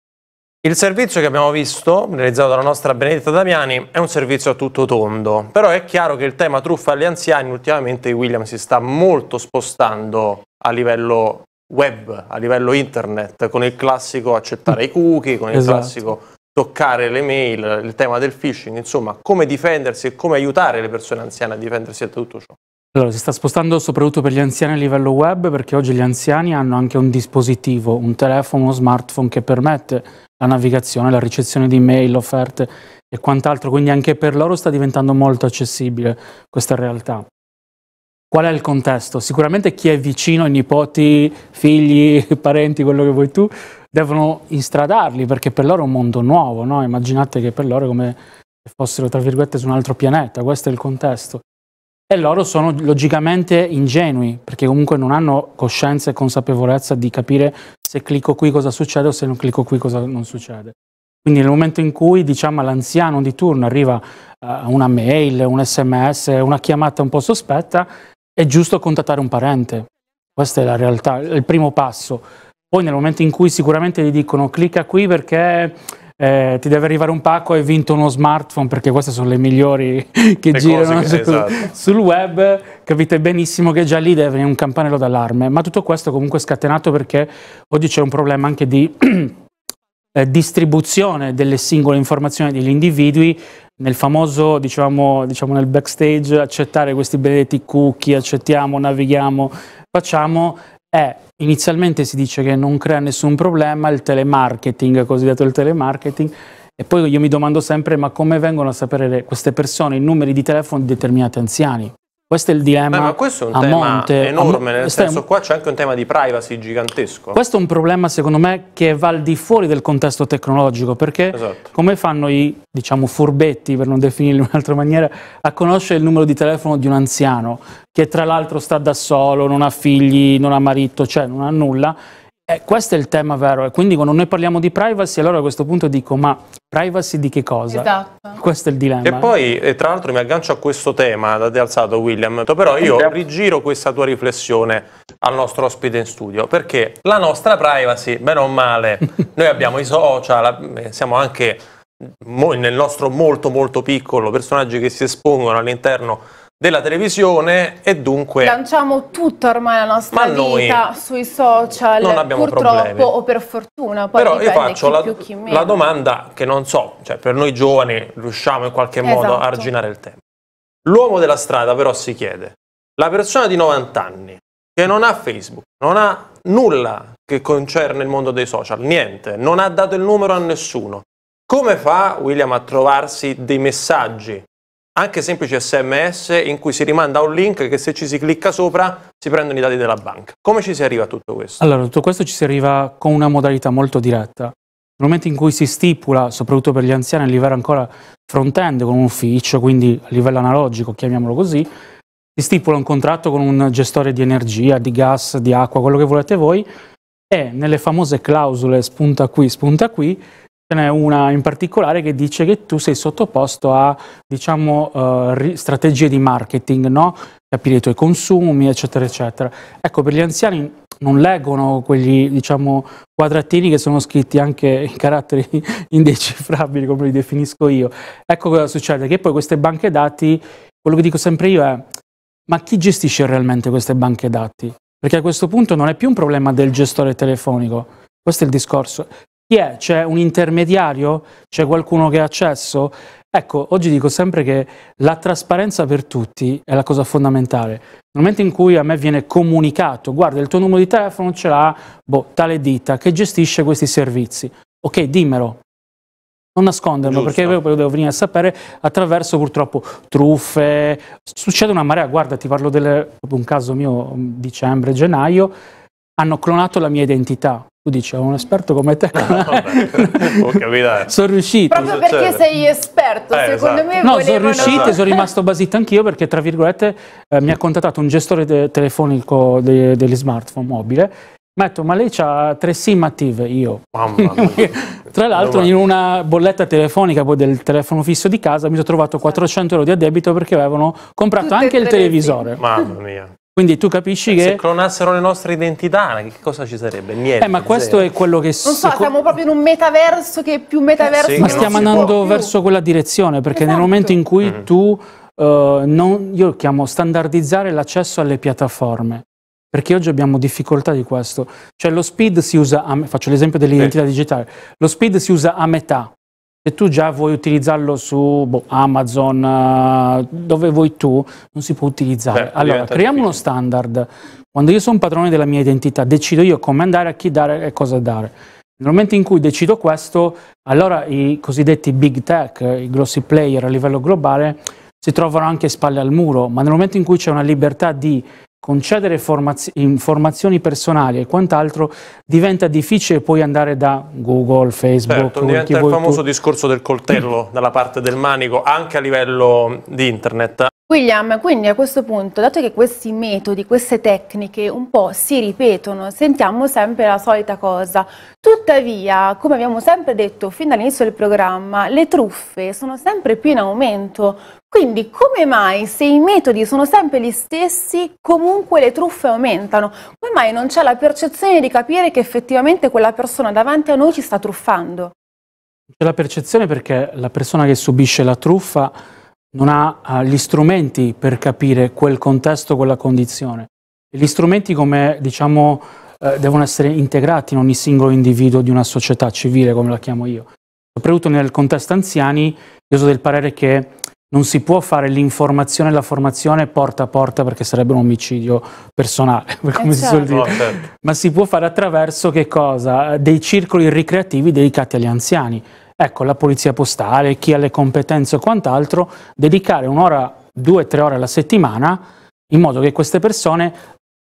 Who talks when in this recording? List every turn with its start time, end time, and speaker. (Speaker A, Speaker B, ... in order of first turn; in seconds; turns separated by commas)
Speaker A: 0.6-22.6, Speaker B: 15.5-15.9, Speaker B: 22.9-37.2, Speaker B: 38.3-51.4, Speaker B: 52.1-89.4, Speaker A: 80.5-81.6, Speaker B: 90.1-115.2, Speaker A: 112.9-117.4, Speaker B: 117.3-131.9, Speaker A: 121.3-121.7, Speaker B: 132.5-139.3, Speaker C: 137.7-138.4, Speaker A: 139.0-158.6, Speaker C: 158.4-165.8, Speaker A: 160.1-160.8, Speaker A: 162.0-163.1, Speaker A: 164.1-170.2, Speaker C: 169.0-169.7, Speaker A: 170.8-191.6, Speaker B: 191.6-201.7, Speaker B: 202.3-206.7, Speaker B: 207.3-231.8, Speaker B: 232.5-255.6, Speaker B: 256.5-265.5, Speaker A: 257.0-257.6, Speaker B: 266.2-272.0, Speaker A: 269.2-271.1, Speaker C: 271.7-275.3, Speaker A: 271.7-272.4, Speaker A: 273.3-273.9, Speaker B: 274.0-292.6, Speaker A: 274.5-274.9, Speaker A: 283.9-284.7, Speaker A: 285.3-285.7, Speaker C: 291.4-292.9, Speaker A: 292.6-293.3, Speaker B: 293.6-294.6, Speaker A: 294.3-298.0, Speaker B: 297.4-299.2, Speaker C: 298.6-302.5, Speaker A: 301.2-302.1, Speaker B: 301.3-316.1, Speaker C: 303.5-304.2, Speaker B: 316.6-346.2, Speaker A: 322.3-323.4, Speaker A: 345.1-350.7, Speaker C: 350.9-375.1, Speaker B: 376.0-378.9, Speaker B: 379.5-413.8, Speaker C: 399.8-400.3, Speaker A: 400.3-400.8